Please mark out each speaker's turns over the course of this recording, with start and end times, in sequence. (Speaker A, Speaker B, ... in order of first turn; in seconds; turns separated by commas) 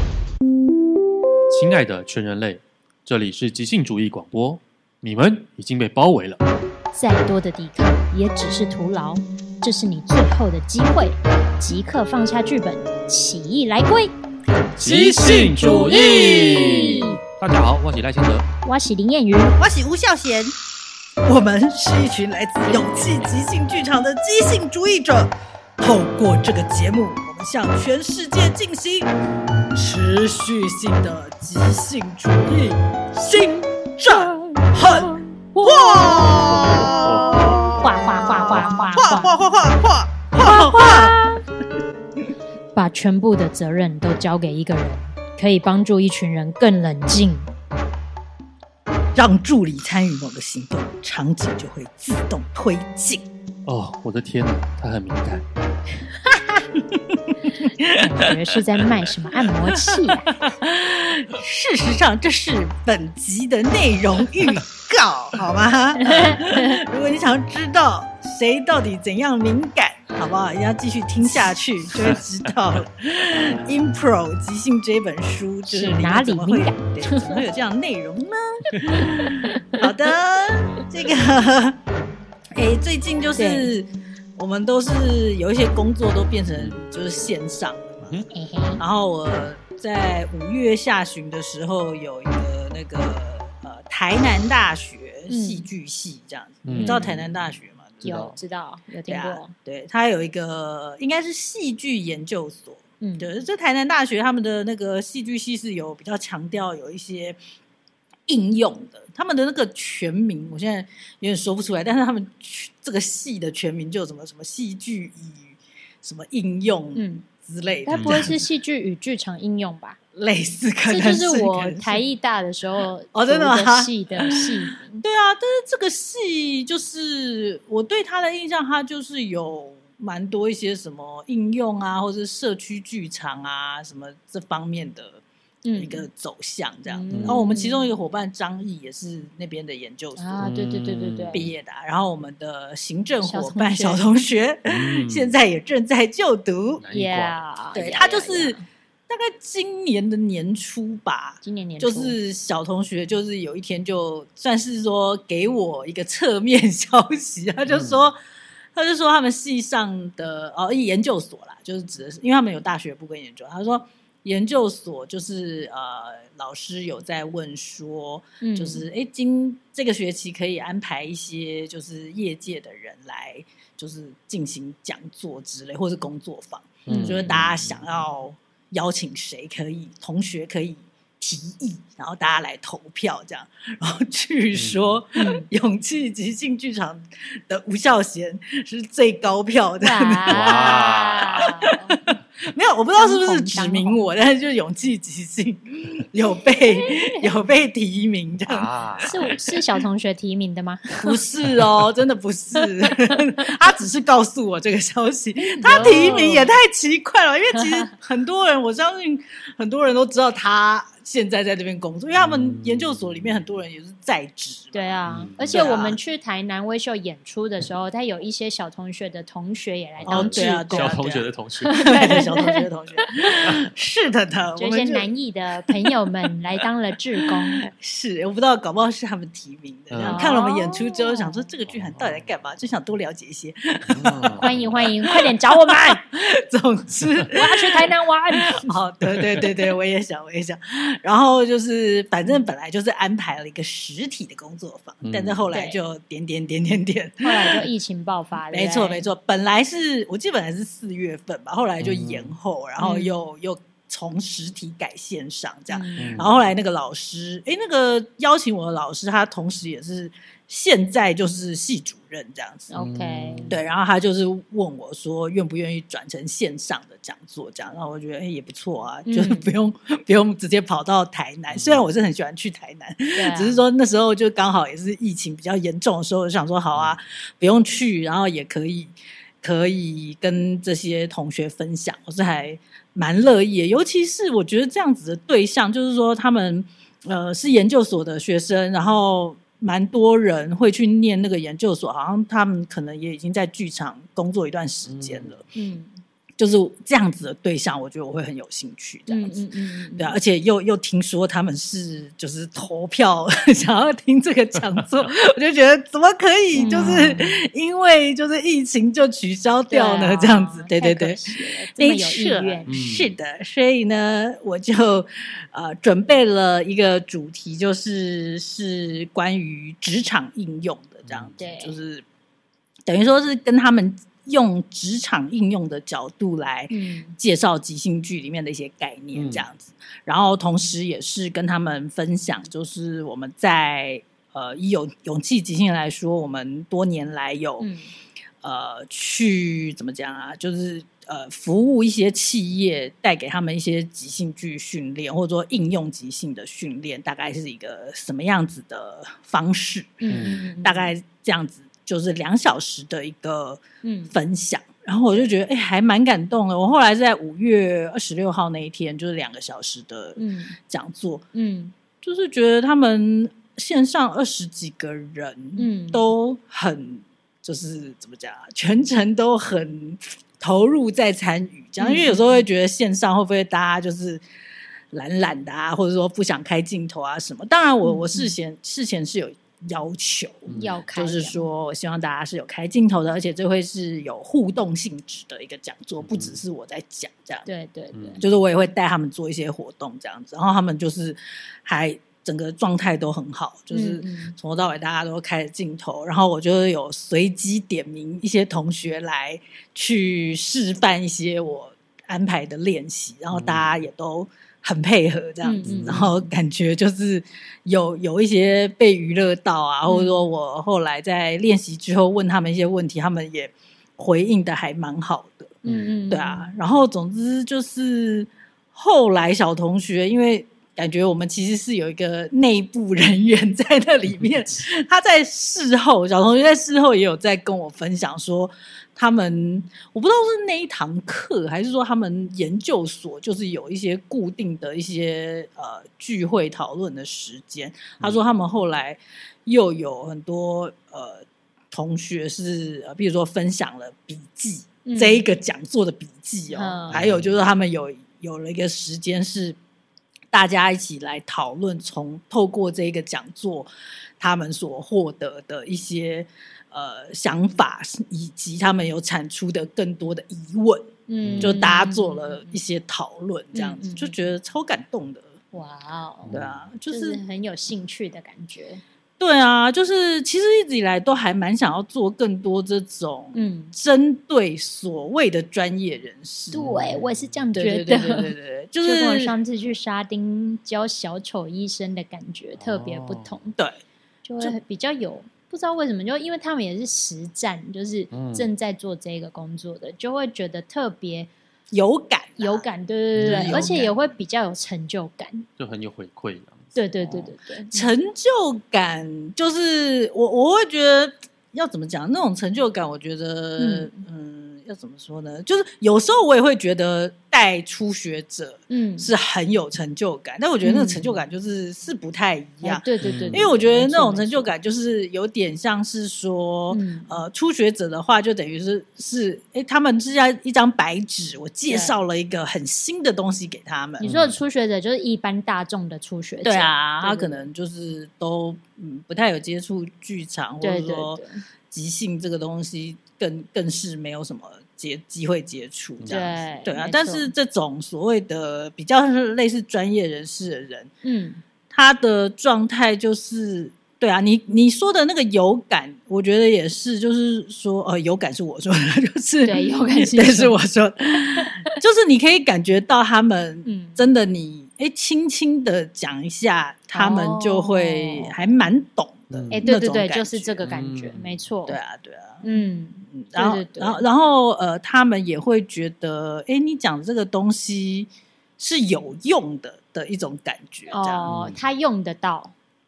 Speaker A: 1.5-6.4, Speaker B: 6.9-14.1, Speaker A: 14.7-18.5, Speaker C: 14.8-17.0, Speaker B: 15.9-17.2, Speaker B: 18.6-19.6, Speaker C: 19.6-20.6, Speaker C: 21.2-29.1, Speaker B: 22.6-23.2, Speaker C: 29.7-41.2, Speaker B: 33.3-36.7, Speaker A: 36.3-37.8, Speaker B: 37.8-39.4, Speaker B: 40.4-41.4, Speaker B: 42.8-47.5, Speaker C: 49.1-53.3, Speaker A: 53.7-55.4, Speaker C: 56.7-58.3, Speaker B: 57.9-60.3, Speaker C: 59.5-81.8, Speaker B: 66.0-66.8, Speaker B: 75.7-77.4, Speaker B: 78.7-79.8, Speaker C: 82.5-88.2, Speaker B: 83.4-83.7, Speaker B: 88.3-88.8, Speaker C: 88.8-98.1, Speaker B: 95.3-95.7, Speaker A: 96.7-97.3, Speaker B: 96.8-97.1, Speaker A: 98.0-98.4, Speaker B: 98.0-99.5, Speaker C: 99.1-107.4, Speaker B: 103.0-103.3, Speaker C: 108.3-118.3, Speaker B: 116.9-117.3, Speaker B: 117.8-120.0, Speaker A: 117.9-118.4, Speaker C: 120.2-122.0, Speaker B: 120.9-125.0, Speaker C: 123.1-135.2, Speaker B: 135.7-136.1, Speaker C: 135.8-140.4, Speaker B: 136.9-137.9, Speaker A: 137.1-137.4, Speaker B: 140.2-141.5, Speaker A: 140.4-141.5, Speaker C: 141.3-146.8, Speaker B: 143.2-144.0, Speaker A: 144.7-145.3, Speaker A: 146.8-147.4, Speaker B: 146.9-148.6, Speaker C: 147.8-158.2, Speaker B: 151.4-152.2, Speaker A: 157.7-158.0, Speaker C: 158.8-199.5, Speaker B: 168.4-168.8, Speaker B: 176.9-177.3, Speaker A: 176.9-177.8, Speaker A: 184.6-185.0, Speaker B: 185.2-185.4, Speaker B: 189.8-192.0, Speaker A: 190.3-191.5, Speaker B: 193.0-194.0, Speaker B: 196.8-197.2, Speaker A: 198.5-199.2, Speaker B: 199.0-201.2, Speaker C: 201.0-216.0, Speaker B: 205.4-206.5, Speaker B: 207.6-207.9, Speaker A: 212.2-213.4, Speaker B: 214.7-221.0, Speaker A: 215.1-215.7, Speaker A: 220.0-222.0, Speaker C: 220.1-225.1, Speaker B: 221.7-223.4, Speaker B: 224.6-227.7, Speaker C: 227.2-247.7, Speaker A: 229.9-230.4, Speaker B: 230.0-231.5, Speaker A: 231.7-232.2, Speaker A: 233.9-234.8, Speaker B: 234.4-236.0, Speaker B: 237.3-238.8, Speaker A: 245.0-245.5, Speaker B: 245.5-245.8, Speaker B: 247.2-249.0, Speaker C: 248.5-262.7, Speaker A: 251.8-252.3, Speaker B: 252.8-253.1, Speaker B: 255.7-256.2, Speaker A: 256.0-256.3, Speaker B: 262.7-263.6, Speaker A: 262.8-263.6, Speaker C: 263.5-295.4, Speaker B: 269.1-269.5, Speaker A: 271.5-271.8, Speaker B: 273.1-273.6, Speaker A: 276.7-277.0, Speaker A: 294.9-295.4, Speaker B: 295.6-295.9, Speaker C: 296.4-299.4, Speaker B: 299.1-300.2, Speaker C: 300.0-322.0, Speaker A: 306.5-307.2, Speaker B: 306.6-307.4, Speaker B: 309.7-312.7, Speaker A: 312.7-313.1, Speaker A: 321.1-321.4, Speaker B: 321.4-321.8, Speaker C: 322.9-337.7, Speaker B: 326.7-327.2, Speaker A: 329.1-329.4, Speaker B: 337.6-337.9, Speaker C: 338.4-361.2, Speaker B: 350.0-350.9, Speaker A: 350.1-350.4, Speaker B: 353.8-354.1, Speaker B: 360.2-360.6, Speaker B: 361.3-361.7, Speaker C: 362.0-374.2, Speaker B: 365.6-366.1, Speaker B: 371.8-372.4, Speaker C: 374.9-387.5, Speaker B: 377.8-378.3, Speaker B: 380.5-381.4, Speaker A: 386.0-386.4, Speaker B: 387.5-388.2, Speaker A: 387.9-388.2, Speaker C: 388.2-449.6, Speaker B: 393.7-394.4, Speaker A: 403.3-403.8, Speaker B: 405.4-406.0, Speaker A: 405.7-406.2, Speaker B: 409.9-410.3, Speaker A: 415.6-416.0, Speaker B: 415.7-416.5, Speaker B: 444.9-445.2, Speaker B: 446.5-447.0, Speaker A: 446.9-447.4, Speaker C: 450.3-453.7, Speaker C: 454.2-465.3, Speaker B: 461.1-462.6, Speaker A: 461.2-461.6, Speaker B: 463.5-464.3, Speaker B: 465.5-466.4, Speaker A: 466.3-466.7, Speaker C: 466.3-467.2, Speaker B: 466.9-468.8, Speaker C: 469.2-476.6, Speaker B: 473.3-473.7, Speaker B: 476.5-483.6, Speaker A: 476.6-477.4, Speaker C: 477.5-479.4, Speaker A: 482.6-483.4, Speaker B: 484.2-491.3, Speaker A: 488.1-488.5, Speaker C: 491.7-493.9, Speaker B: 492.4-495.5, Speaker A: 493.2-493.8, Speaker A: 495.6-496.8, Speaker B: 496.8-497.9, Speaker C: 497.1-524.1, Speaker B: 503.6-504.0, Speaker B: 508.7-509.1, Speaker B: 510.6-511.2, Speaker B: 512.6-514.5, Speaker A: 513.0-513.5, Speaker B: 516.7-517.1, Speaker B: 521.7-522.0, Speaker B: 524.0-527.5, Speaker A: 524.0-524.4, Speaker C: 526.4-540.9, Speaker B: 530.6-531.4, Speaker B: 536.1-537.3, Speaker B: 541.0-541.4, Speaker C: 541.7-560.6, Speaker B: 549.5-550.6, Speaker B: 553.6-554.0, Speaker B: 556.9-558.5, Speaker A: 559.3-559.6, Speaker B: 559.5-561.8, Speaker A: 560.6-561.5, Speaker C: 561.7-562.4, Speaker B: 562.4-564.0, Speaker C: 563.1-571.3, Speaker B: 570.9-572.5, Speaker A: 571.3-571.6